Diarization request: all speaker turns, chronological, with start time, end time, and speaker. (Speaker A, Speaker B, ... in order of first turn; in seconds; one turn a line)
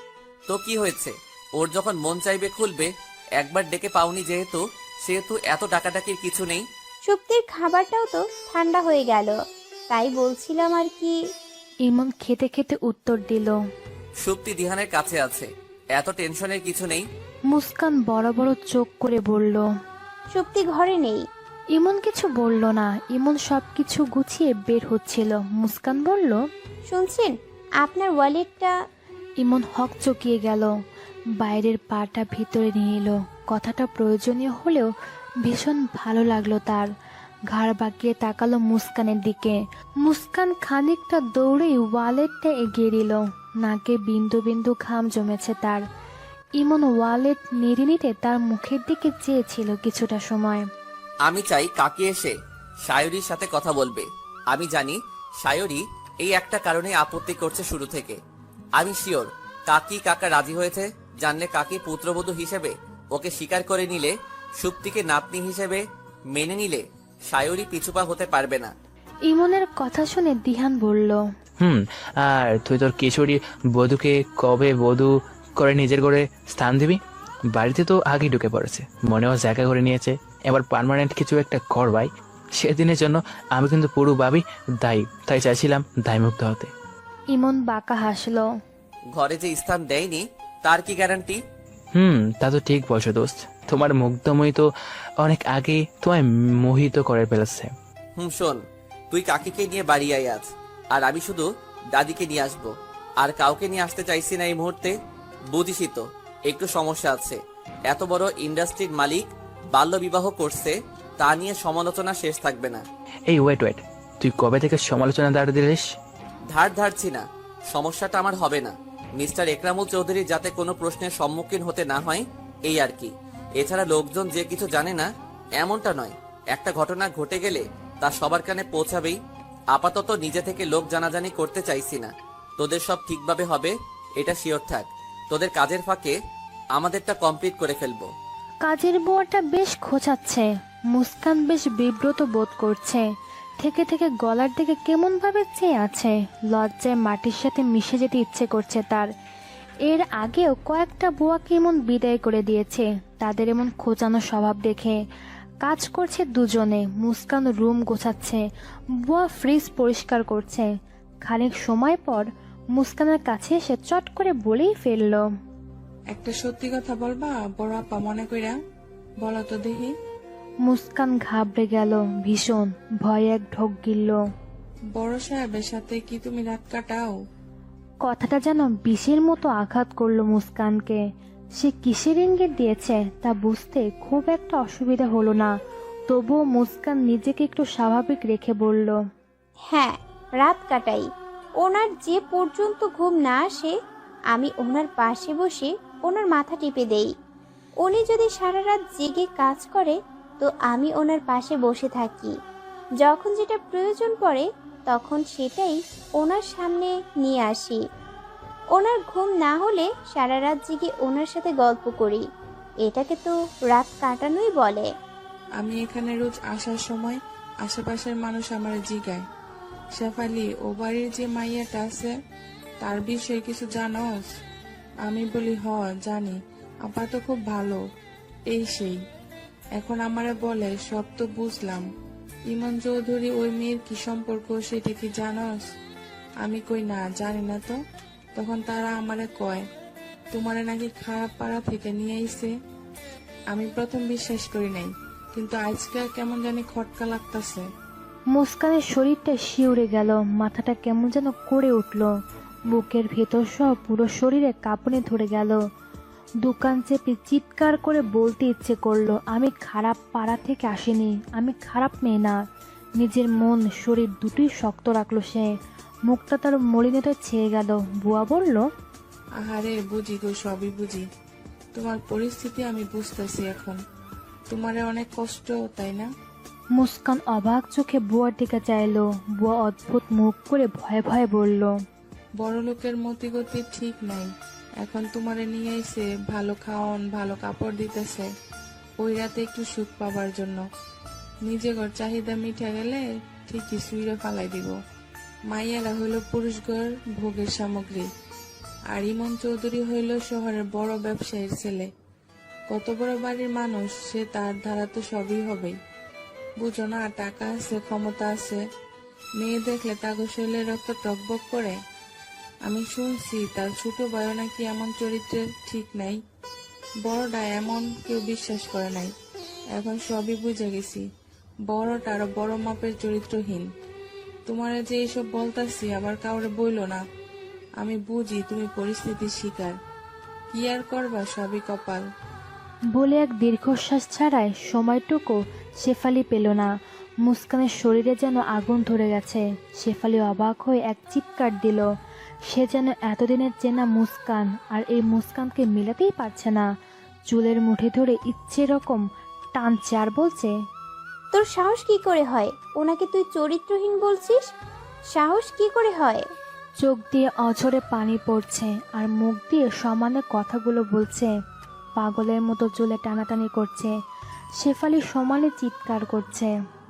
Speaker A: 0.5-6.6
Speaker B: 7.0-9.3
Speaker B: 9.9-11.1
Speaker C: 11.8-13.6
Speaker A: 14.2-17.1
Speaker C: 17.5-19.7
Speaker B: 20.3-21.2
Speaker C: 21.7-26.4
Speaker B: 26.9-28.7
Speaker C: 29.4-30.7
Speaker C: 31.4-34.9
Speaker C: 35.4-36.9
Speaker C: 37.5-45.8
Speaker C: 46.6-50.6
Speaker A: 51.2-52.3
Speaker A: 52.8-58.2
Speaker A: 58.8-68.7
Speaker C: 69.3-71.2
Speaker D: 71.6-77.0
Speaker D: 77.5-86.7
Speaker C: 87.3-88.5
Speaker A: 89.1-91.4
Speaker D: 91.9-94.7
Speaker D: 95.2-97.7
Speaker A: 98.2-104.9
Speaker A: 105.5-112.8
Speaker D: 113.3-115.8
Speaker A: 116.5-125.1
Speaker A: 125.6-129.2
Speaker A: 129.7-136.2
Speaker A: 136.7-138.1
Speaker C: 138.6-143.1
Speaker C: 143.6-149.1
Speaker C: 149.8-155.0
Speaker C: 155.6-158.4
Speaker C: 159.0-160.7
Speaker C: 161.2-165.2
Speaker E: 166.1-168.6
Speaker E: 169.2-169.9
Speaker C: 170.6-174.2
Speaker E: 174.9-177.2
Speaker C: 178.0-181.0
Speaker C: 181.6-185.5
Speaker C: 186.1-189.0
Speaker B: 189.7-191.1
Speaker B: 191.6-193.7
Speaker B: 194.3-197.1
Speaker B: 197.8-202.3
Speaker B: 203.0-207.8
Speaker B: 208.7-212.2
Speaker B: 212.8-214.8
Speaker E: 215.6-219.2
Speaker E: 219.9-222.1
Speaker E: 222.8-224.3
Speaker E: 225.0-227.8
Speaker E: 228.5-229.0
Speaker E: 229.8-231.8
Speaker E: 232.5-235.6
Speaker E: 236.4-237.8
Speaker E: 238.3-239.6
Speaker E: 240.3-242.5
Speaker E: 243.5-247.6
Speaker C: 248.3-252.1
Speaker C: 252.7-255.6
Speaker C: 256.4-262.4
Speaker C: 263.0-265.5
Speaker C: 266.1-268.6
Speaker E: 269.4-271.0
Speaker E: 271.8-273.8
Speaker E: 274.5-276.1
Speaker C: 276.8-281.7
Speaker E: 282.4-284.3
Speaker E: 284.8-288.3
Speaker E: 289.0-290.6
Speaker E: 291.4-294.7
Speaker E: 295.5-298.1
Speaker E: 298.9-301.9
Speaker E: 302.7-305.7
Speaker E: 306.6-308.6
Speaker E: 309.4-311.8
Speaker E: 312.7-316.2
Speaker E: 317.1-319.1
Speaker E: 319.7-321.0
Speaker E: 321.7-323.7
Speaker E: 324.5-327.0
Speaker E: 327.8-329.8
Speaker E: 330.5-332.0
Speaker C: 332.9-336.7
Speaker C: 337.2-341.9
Speaker C: 342.5-346.7
Speaker C: 347.3-350.5
Speaker B: 351.3-354.4
Speaker B: 355.1-356.2
Speaker C: 356.8-361.3
Speaker C: 362.0-363.9
Speaker C: 364.6-366.5